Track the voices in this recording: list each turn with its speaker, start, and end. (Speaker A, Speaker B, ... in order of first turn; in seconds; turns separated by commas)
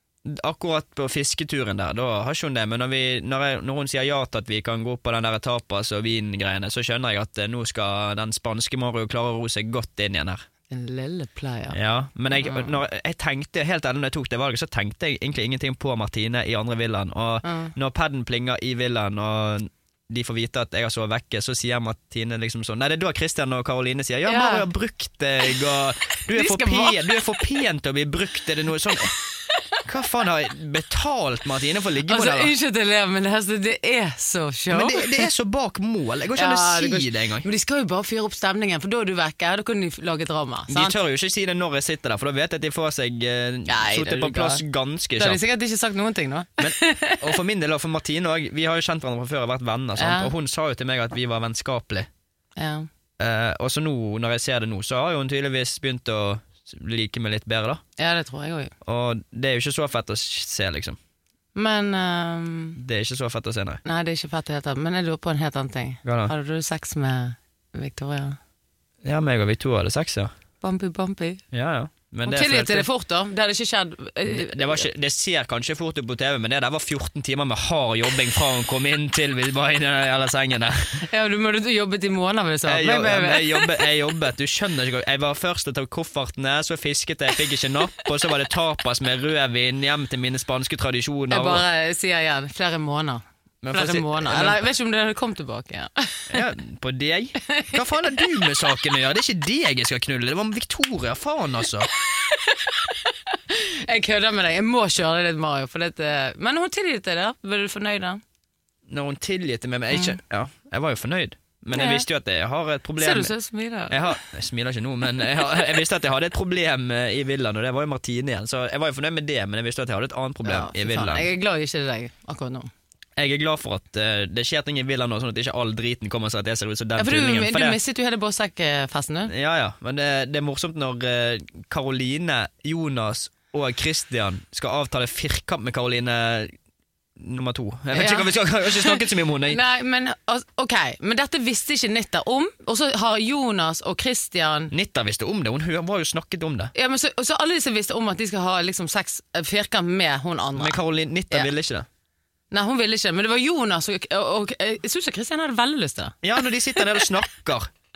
Speaker A: 0.2-10.4, Speaker B: 10.7-11.8, Speaker A: 11.7-29.1, Speaker B: 12.3-12.8, Speaker B: 17.4-17.7, Speaker B: 24.2-24.7, Speaker B: 26.3-27.2, Speaker A: 29.8-32.5, Speaker B: 32.0-35.3, Speaker A: 34.7-37.5, Speaker B: 36.3-40.9, Speaker A: 40.7-45.4, Speaker B: 43.6-44.6, Speaker B: 45.2-47.3, Speaker A: 46.6-52.1, Speaker B: 50.0-50.3, Speaker B: 52.6-52.9, Speaker A: 53.2-57.8, Speaker B: 58.0-58.7, Speaker A: 58.8-61.0, Speaker B: 61.5-62.8, Speaker A: 62.8-63.8, Speaker B: 63.8-68.4, Speaker A: 66.0-66.3, Speaker A: 69.0-70.3, Speaker B: 70.6-71.4, Speaker A: 71.5-72.9, Speaker B: 72.2-74.8, Speaker A: 74.3-81.0, Speaker B: 81.0-83.9, Speaker A: 82.7-91.6, Speaker B: 91.3-96.3, Speaker A: 93.6-94.6, Speaker A: 96.3-101.9, Speaker B: 102.0-108.2, Speaker A: 108.9-113.3, Speaker B: 109.9-110.2, Speaker B: 111.7-112.0, Speaker B: 113.0-114.2, Speaker A: 113.9-121.3, Speaker B: 120.4-122.7, Speaker A: 123.2-127.8, Speaker B: 127.0-129.3, Speaker A: 129.3-136.5, Speaker A: 137.2-139.6, Speaker B: 137.9-144.7, Speaker A: 144.7-146.7, Speaker B: 146.7-150.8, Speaker A: 150.6-151.9, Speaker B: 152.5-157.0, Speaker A: 156.2-157.7